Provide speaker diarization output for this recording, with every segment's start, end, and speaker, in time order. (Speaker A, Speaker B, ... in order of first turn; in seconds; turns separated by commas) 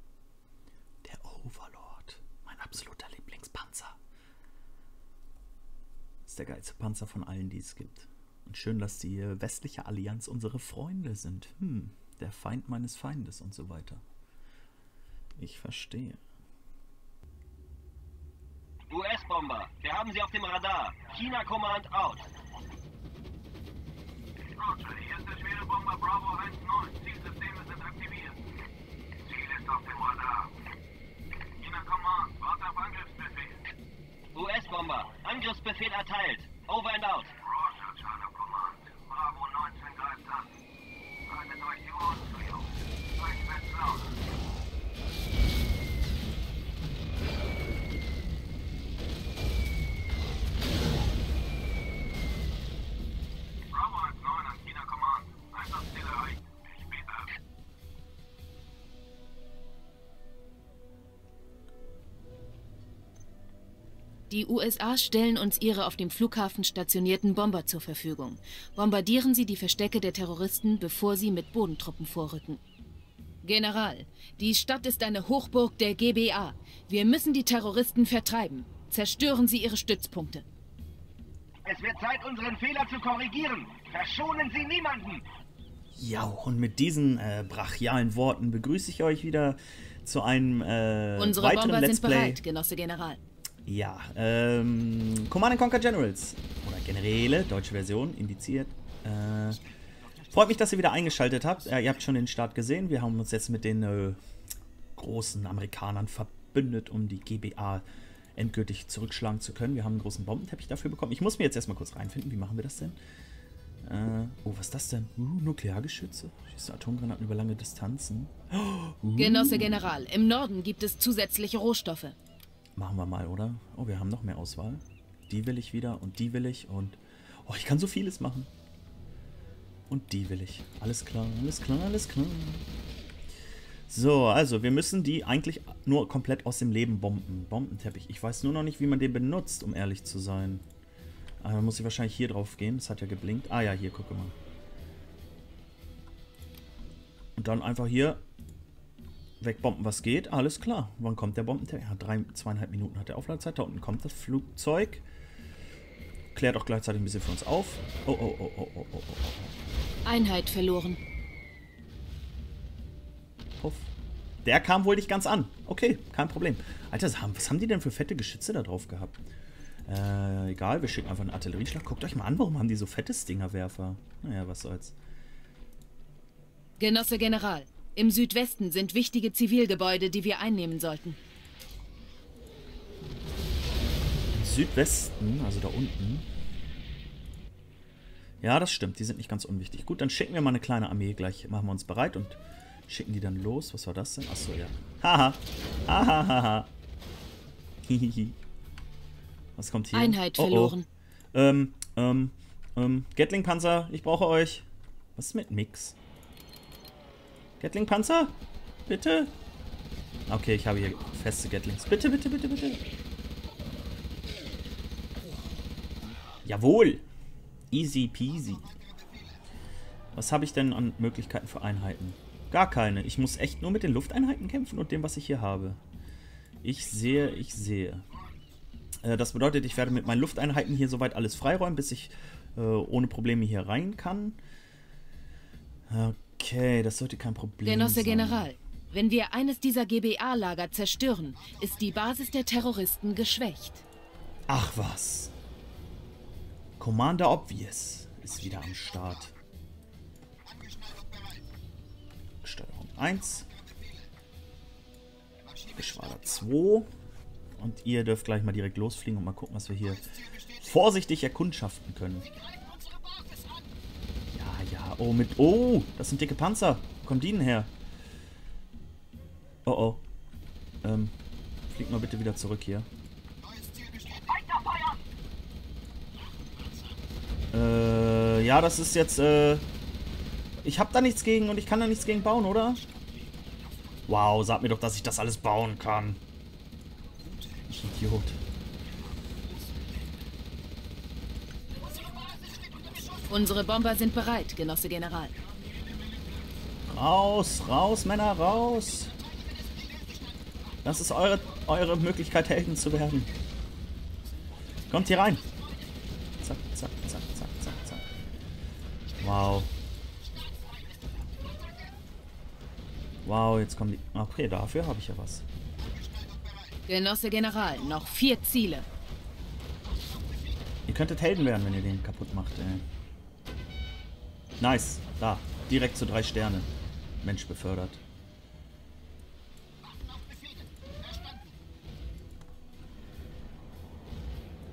Speaker A: 1.0-4.0, Speaker A: 6.2-14.0, Speaker A: 15.4-16.2, Speaker B: 18.9-22.2, Speaker C: 24.9-28.3, Speaker B: 29.5-30.1, Speaker B: 32.0-32.9, Speaker B: 34.3-40.4, Speaker B: 41.3-42.5, Speaker B: 43.2-44.0, Speaker D: 64.3-72.6, Speaker D: 73.4-80.4, Speaker B: 81.6-85.2, Speaker A: 85.9-92.4, Speaker D: 91.2-93.2, Speaker A: 93.7-99.6, Speaker C: 100.2-101.4, Speaker A: 100.3-104.2, Speaker A: 105.0-113.0, Speaker A: 113.8-119.8, Speaker D: 119.2-122.2, Speaker A: 122.8-128.5, Speaker A: 129.9-132.7, Speaker A: 133.9-140.6, Speaker A: 141.4-144.3, Speaker A: 147.3-148.2, Speaker A: 149.4-155.0, Speaker A: 156.3-159.5, Speaker D: 160.0-161.0, Speaker A: 163.6-163.9, Speaker A: 164.4-169.2, Speaker A: 169.8-174.9, Speaker D: 176.8-181.2, Speaker A: 184.3-186.2, Speaker A: 188.4-196.7, Speaker A: 197.8-198.4, Speaker A: 199.6-200.8, Speaker D: 199.9-200.9, Speaker A: 201.3-205.9, Speaker A: 207.6-208.3, Speaker A: 208.9-209.3, Speaker A: 210.3-212.8, Speaker A: 216.4-217.0, Speaker A: 217.7-218.8, Speaker A: 220.1-225.8, Speaker A: 226.6-228.0, Speaker A: 229.0-234.4, Speaker A: 235.9-238.5, Speaker D: 237.6-243.8, Speaker A: 244.5-245.3, Speaker A: 246.8-249.3, Speaker A: 252.4-253.5, Speaker A: 255.7-256.9, Speaker A: 257.6-262.3, Speaker C: 262.2-263.8, Speaker A: 264.3-267.7, Speaker A: 269.6-270.0, Speaker A: 270.8-271.1, Speaker A: 271.7-272.9, Speaker C: 273.5-274.1, Speaker B: 274.3-274.9, Speaker C: 276.1-277.0, Speaker A: 277.5-279.6, Speaker A: 280.6-282.8, Speaker C: 282.8-284.1, Speaker A: 284.1-286.2, Speaker C: 287.0-288.0, Speaker A: 287.7-288.4, Speaker C: 288.8-290.3, Speaker C: 291.7-293.4, Speaker D: 293.3-295.3, Speaker C: 295.4-296.5, Speaker A: 296.9-299.1, Speaker C: 299.1-300.8, Speaker A: 300.8-303.3, Speaker C: 304.5-306.1, Speaker A: 304.9-305.4, Speaker A: 306.4-308.0, Speaker A: 309.2-309.7, Speaker C: 310.2-311.9, Speaker A: 313.2-315.4, Speaker C: 315.8-316.6, Speaker D: 316.9-318.9, Speaker C: 319.8-320.6, Speaker A: 320.9-322.8, Speaker A: 324.6-326.7, Speaker A: 327.2-328.0, Speaker C: 329.8-331.6